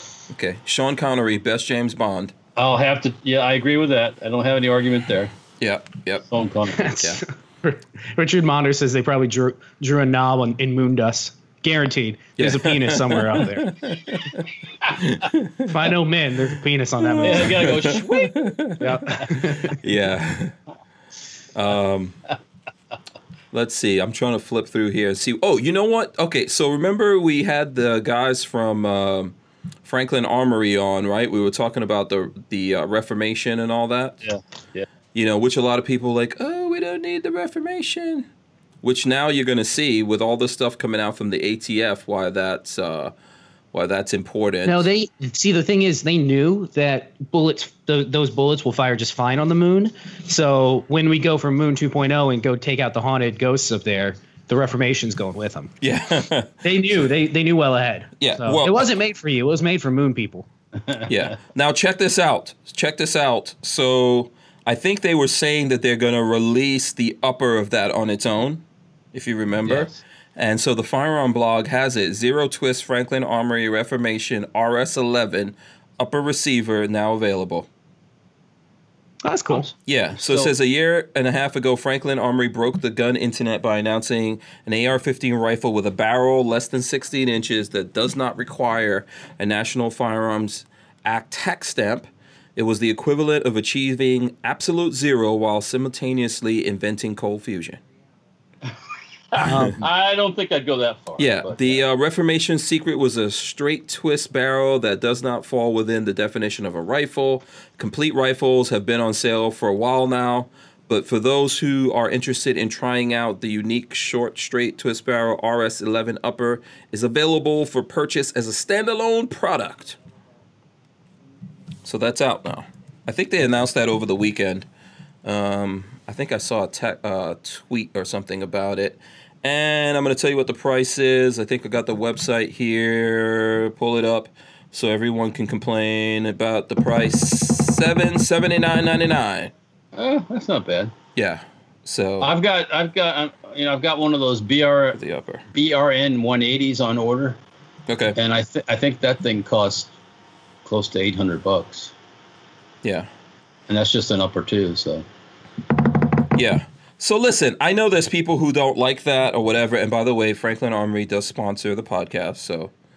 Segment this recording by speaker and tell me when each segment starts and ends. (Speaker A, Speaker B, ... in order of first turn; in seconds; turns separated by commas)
Speaker A: 0.3-2.3, Speaker B: 2.5-5.3, Speaker A: 5.6-6.3, Speaker B: 6.3-6.9, Speaker C: 6.7-13.8, Speaker A: 6.9-7.2, Speaker A: 12.4-15.9, Speaker C: 15.6-17.9, Speaker A: 17.0-20.5, Speaker B: 17.2-18.4, Speaker C: 18.8-19.8, Speaker A: 21.5-22.2, Speaker A: 23.5-34.2, Speaker B: 34.2-34.9, Speaker A: 35.1-38.3, Speaker A: 38.8-43.1, Speaker A: 43.7-44.9, Speaker C: 44.6-55.7, Speaker A: 55.8-56.6, Speaker C: 56.6-60.5, Speaker A: 58.2-58.8, Speaker A: 61.1-77.7, Speaker C: 79.2-79.7, Speaker B: 79.5-80.5, Speaker A: 79.8-97.8, Speaker B: 99.3-101.8, Speaker A: 99.4-99.8, Speaker C: 99.4-99.8, Speaker A: 101.2-120.0, Speaker A: 121.8-124.7, Speaker A: 125.2-139.5, Speaker B: 139.9-140.9, Speaker A: 141.2-142.3, Speaker B: 142.2-145.0, Speaker A: 144.9-145.4, Speaker B: 145.5-147.4, Speaker A: 147.9-148.2, Speaker B: 148.2-149.9, Speaker B: 150.6-151.9, Speaker A: 152.8-153.1, Speaker B: 153.7-155.0, Speaker A: 156.3-162.7